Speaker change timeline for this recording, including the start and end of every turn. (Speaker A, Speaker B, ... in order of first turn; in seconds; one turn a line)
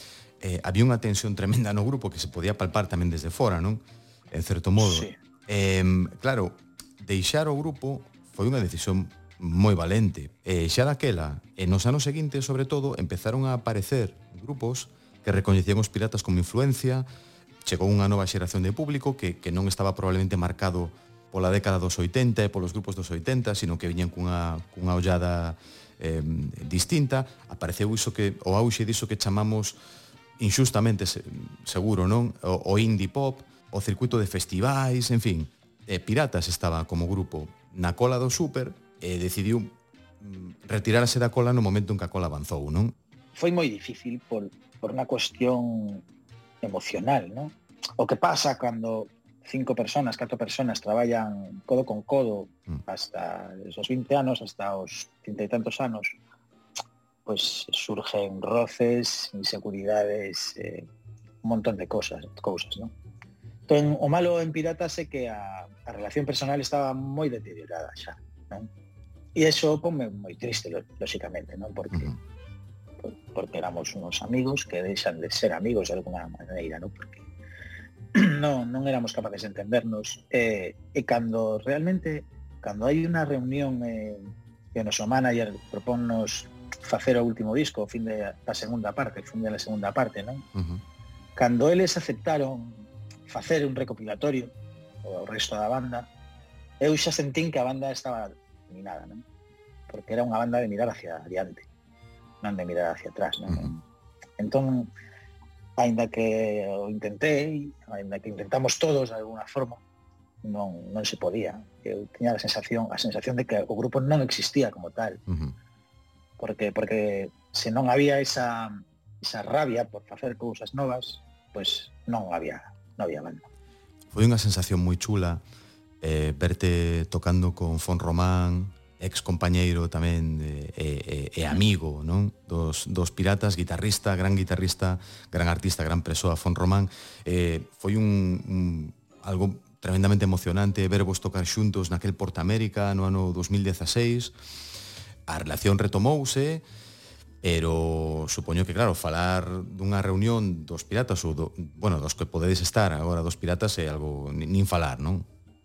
Speaker A: 0.4-17.1
Speaker B: 4.8-5.2
Speaker A: 17.6-29.8
Speaker A: 30.4-43.0
Speaker B: 43.4-46.0
Speaker B: 46.6-56.1
Speaker B: 57.3-60.9
Speaker B: 61.4-62.9
Speaker B: 63.7-68.7
Speaker B: 69.3-72.1
Speaker B: 73.0-77.2
Speaker B: 78.1-90.5
Speaker A: 90.5-90.8
Speaker B: 91.4-94.5
Speaker B: 95.0-96.1
Speaker B: 96.8-99.2
Speaker B: 99.9-101.7
Speaker B: 102.4-103.8
Speaker B: 104.4-104.9
Speaker B: 105.8-109.8
Speaker B: 110.4-115.2
Speaker A: 115.3-115.6
Speaker B: 116.4-123.5
Speaker A: 124.1-125.4
Speaker A: 126.0-144.3
Speaker A: 145.3-146.7
Speaker A: 147.4-155.3